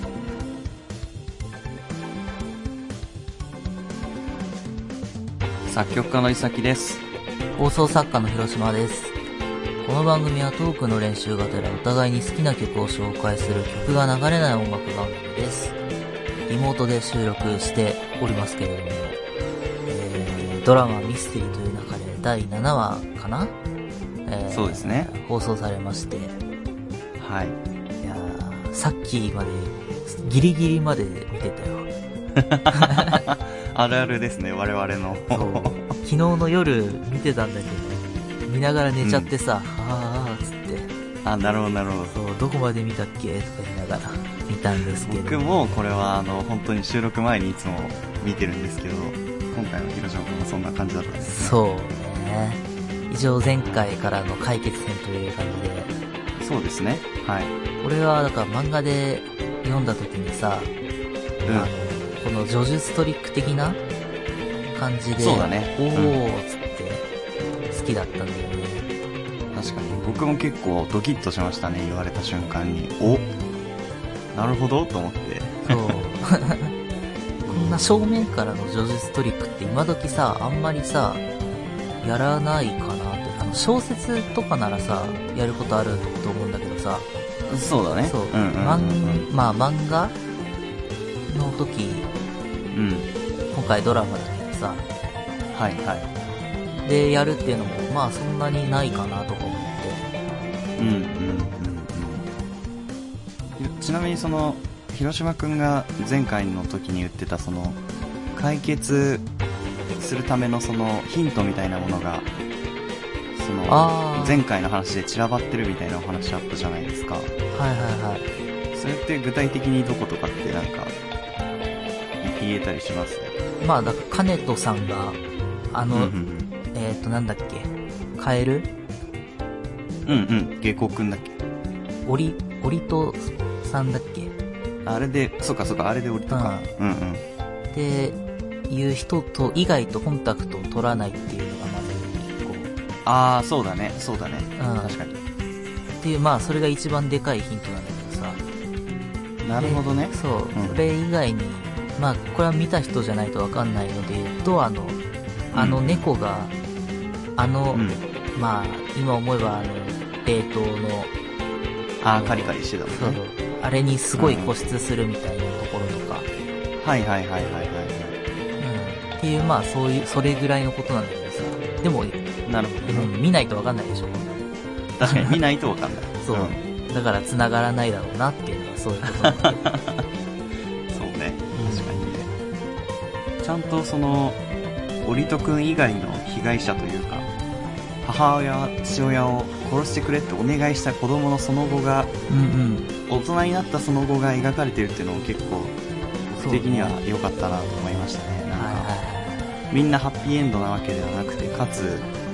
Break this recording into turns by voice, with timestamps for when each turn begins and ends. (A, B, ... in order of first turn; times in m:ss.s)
0:05.6-0:07.0 A
0:07.6-0:09.1 B
0:09.8-0:15.8 B
0:16.5-0:19.2 B
0:19.9-0:23.5 B
0:24.2-0:26.4 B
0:24.5-0:25.1 A
0:27.2-0:27.6 A
0:28.0-0:31.9 B
0:32.3-0:35.9 A
0:32.8-0:33.2 B
0:35.3-0:40.9 B
0:39.0-0:39.3 A
0:41.2-0:42.2 A
0:42.1-0:45.5 B
0:45.0-0:51.5 A
0:51.2-0:55.9 B
0:53.6-0:53.9 A
0:56.4-0:57.5 A
0:57.8-1:00.7 B
1:01.4-1:03.8 B
1:01.4-1:01.7 A
1:04.7-1:07.0 B
1:05.2-1:06.2 A
1:07.7-1:08.9 B
1:09.5-1:13.2 A
1:13.0-1:13.5 B
1:14.3-1:16.0 A
1:15.6-1:16.7 B
1:17.4-1:17.9 A
1:17.5-1:21.2 B
1:22.0-1:27.1 B
1:27.5-1:29.3 A
1:28.0-1:30.2 B
1:31.3-1:32.1 B
1:32.7-1:33.1 A
1:33.5-1:34.8 B
1:35.5-1:36.1 A
1:36.8-1:40.0 B
1:40.8-1:42.2 A
1:43.6-1:47.8 A
1:48.3-1:49.3 A
1:50.0-1:52.3 A
1:53.3-1:57.3 A
1:53.7-1:54.4 B
1:57.5-1:58.3 B
1:58.7-2:00.9 A
2:02.2-2:03.3 A
2:03.6-2:05.2 B
2:05.7-2:06.1 B
2:05.9-2:06.5 A
2:06.7-2:08.7 B
2:10.0-2:11.4 A
2:12.0-2:14.3 B
2:14.8-2:17.2 A
2:16.3-2:16.7 B
2:17.7-2:22.7 B
2:23.0-2:25.2 A
2:24.6-2:25.0 B
2:26.0-2:28.4 B
2:29.4-2:30.8 A
2:29.6-2:35.0 B
2:35.5-2:36.0 A
2:35.5-2:36.5 B
2:37.4-2:41.1 B
2:37.7-2:38.0 A
2:42.0-2:43.2 A
2:42.2-2:46.3 B
2:44.2-2:44.6 A
2:46.8-2:48.2 A
2:48.6-2:52.2 B
2:52.4-2:53.1 A
2:52.8-2:54.4 B
2:55.0-2:56.6 A
2:55.0-2:55.4 B
2:56.2-2:59.6 B
2:59.0-3:00.0 A
3:00.9-3:02.3 A
3:01.5-3:02.0 B
3:03.4-3:04.4 A
3:05.0-3:07.3 A
3:08.0-3:12.1 A
3:12.3-3:12.9 B
3:13.1-3:15.7 A
3:16.3-3:18.9 A
3:16.4-3:17.0 B
3:18.6-3:19.6 B
3:19.7-3:22.1 A